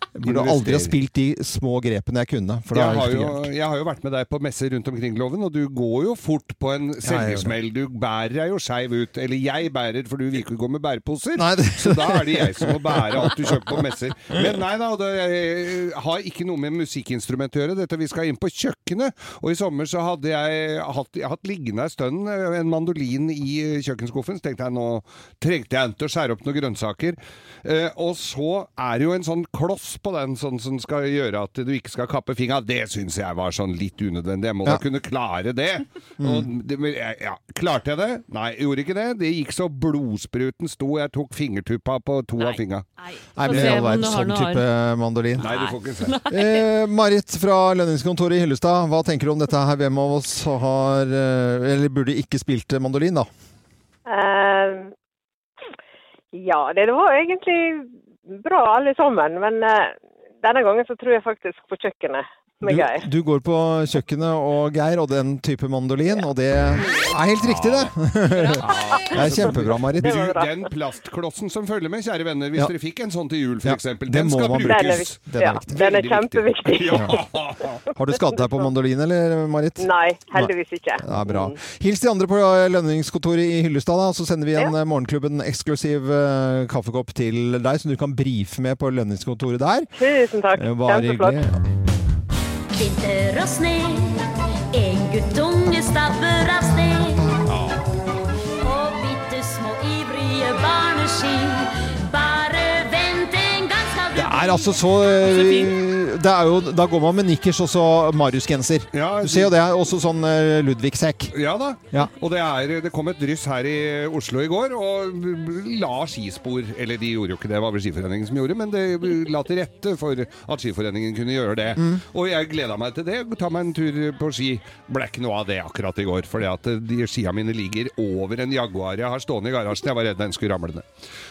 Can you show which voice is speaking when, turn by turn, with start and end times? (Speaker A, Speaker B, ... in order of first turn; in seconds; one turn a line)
Speaker A: 0.2-3.5
Speaker B: 0.2-0.9
Speaker B: 2.7-42.9
Speaker A: 7.0-7.6
Speaker A: 11.4-13.6
Speaker A: 36.2-36.5
Speaker C: 42.4-44.6
Speaker A: 43.4-45.5
Speaker B: 43.5-43.8
Speaker B: 45.4-46.2
Speaker C: 45.4-46.6
Speaker A: 46.3-53.3
Speaker D: 54.1-54.9
Speaker D: 56.3-63.1
Speaker A: 62.6-70.2
Speaker B: 67.4-67.9
Speaker B: 68.6-77.8
Speaker D: 68.7-69.1
Speaker D: 70.0-70.5
Speaker A: 73.6-75.7
Speaker D: 74.6-77.3
Speaker A: 76.9-77.2
Speaker A: 77.9-89.9
Speaker D: 79.8-81.6
Speaker D: 90.0-91.4
Speaker A: 90.5-91.6
Speaker E: 92.7-94.2
Speaker E: 94.7-97.4
Speaker B: 97.5-97.8
Speaker E: 98.6-104.8
Speaker A: 104.1-111.3
Speaker C: 105.2-105.8
Speaker B: 108.9-109.5
Speaker B: 111.3-130.9
Speaker A: 121.8-122.0